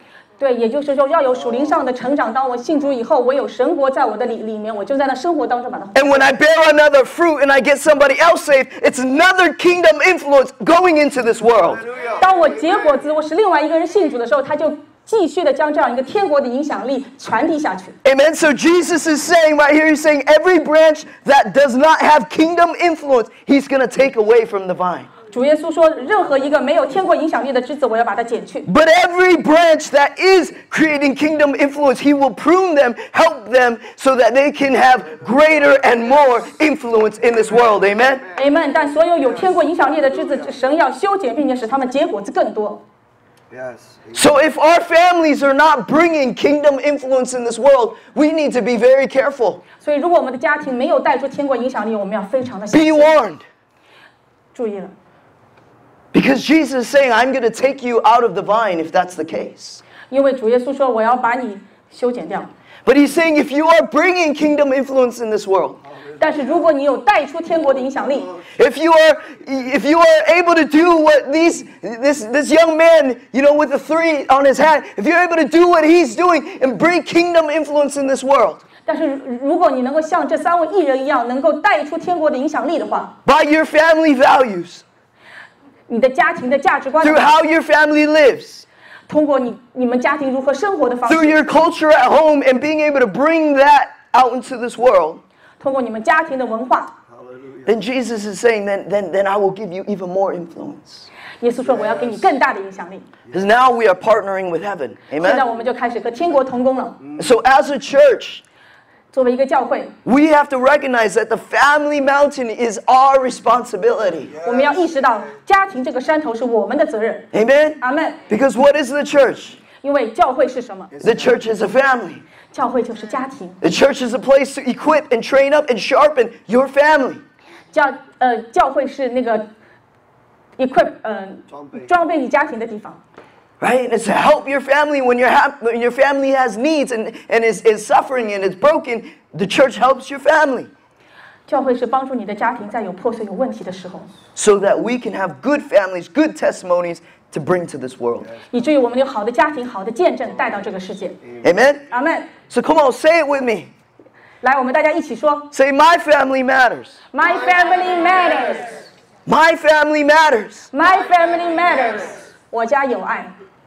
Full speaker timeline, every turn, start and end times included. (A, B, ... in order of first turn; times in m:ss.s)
0:00.4-0:06.3 A
0:06.0-0:11.9 B
0:11.8-0:12.7 C
0:12.2-0:18.0 A
0:18.0-0:25.1 B
0:25.3-0:28.7 A
0:28.7-0:38.2 B
0:35.3-0:36.1 C
0:37.5-0:38.4 C
0:38.3-0:42.8 A
0:43.5-0:44.3 C
0:44.1-0:49.6 B
0:49.8-0:53.1 A
0:52.7-0:53.4 B
0:54.5-0:54.9 A
0:56.1-0:59.8 B
1:00.1-1:02.5 A
1:02.8-1:05.8 B
1:06.0-1:06.6 C
1:06.2-1:08.3 A
1:08.6-1:18.6 B
1:18.9-1:23.1 A
1:23.2-1:24.8 B
1:25.9-1:27.3 A
1:27.0-1:28.7 B
1:29.1-1:31.4 A
1:31.1-1:35.2 B
1:35.6-1:37.0 A
1:37.1-1:37.7 C
1:37.7-1:41.1 B
1:41.4-1:43.1 A
1:41.8-1:42.2 C
1:43.3-1:45.4 B
1:45.2-1:47.0 A
1:47.2-1:48.4 B
1:49.1-1:50.0 A
1:50.0-1:54.4 B
1:54.3-1:55.3 C
1:54.4-1:57.3 A
1:57.3-1:59.6 B
1:57.8-1:58.2 A
1:59.8-2:00.9 A
2:00.9-2:01.4 C
2:01.0-2:02.2 B
2:02.5-2:03.6 A
2:03.6-2:07.2 B
2:07.7-2:09.5 A
2:10.6-2:13.0 A
2:11.5-2:11.9 C
2:13.6-2:20.7 B
2:21.5-2:24.1 A
2:24.4-2:28.3 B
2:28.5-2:31.2 A
2:31.4-2:31.8 B
2:31.9-2:32.3 A
2:32.5-2:33.7 B
2:34.4-2:35.5 A
2:35.5-2:37.0 B
2:37.1-2:38.8 A
2:39.3-2:40.7 B
2:40.7-2:43.3 A